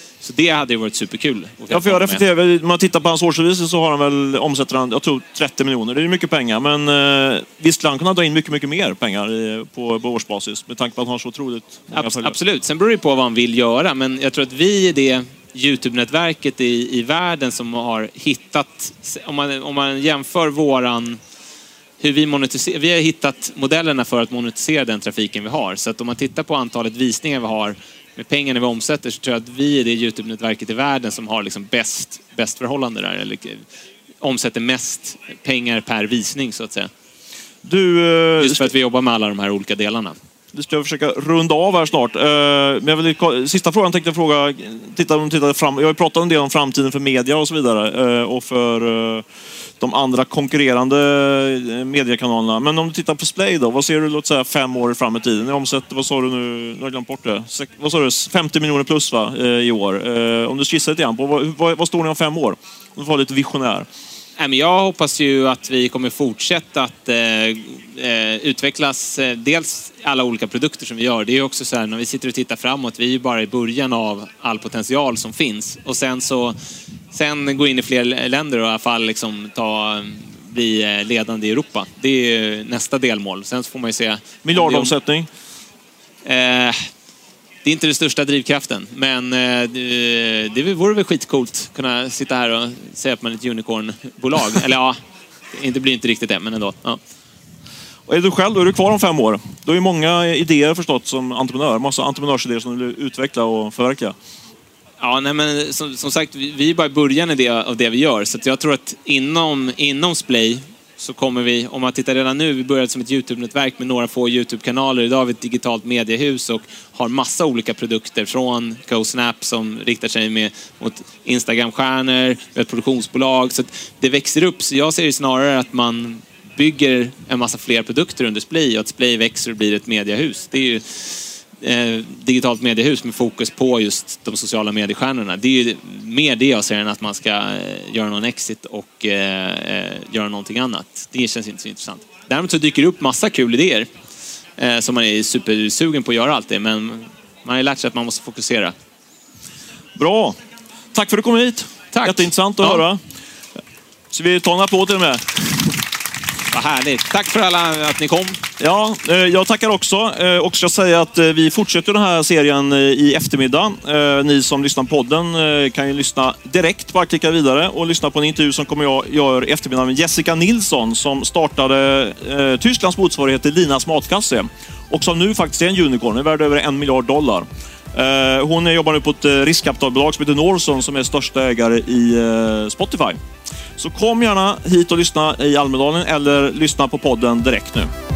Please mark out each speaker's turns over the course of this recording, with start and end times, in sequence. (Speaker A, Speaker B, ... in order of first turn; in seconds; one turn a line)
Speaker A: 0.2-2.2
Speaker B: 1.7-12.4
Speaker A: 11.9-21.2
Speaker A: 22.0-33.6
Speaker A: 34.2-36.9
Speaker B: 37.6-38.7
Speaker A: 38.4-40.2
Speaker B: 40.5-49.2
Speaker B: 49.8-63.9
Speaker A: 64.4-76.6
Speaker A: 77.1-85.0
Speaker B: 84.4-85.3
Speaker A: 86.2-86.9
Speaker A: 87.6-95.0
Speaker A: 95.5-97.0
Speaker B: 98.1-104.2
Speaker A: 105.0-143.9
Speaker A: 144.6-148.8
Speaker B: 150.0-150.4
Speaker B: 150.9-153.0
Speaker A: 151.9-152.8
Speaker B: 154.1-155.7
Speaker A: 156.5-158.4
Speaker B: 158.6-183.2
Speaker B: 183.8-187.9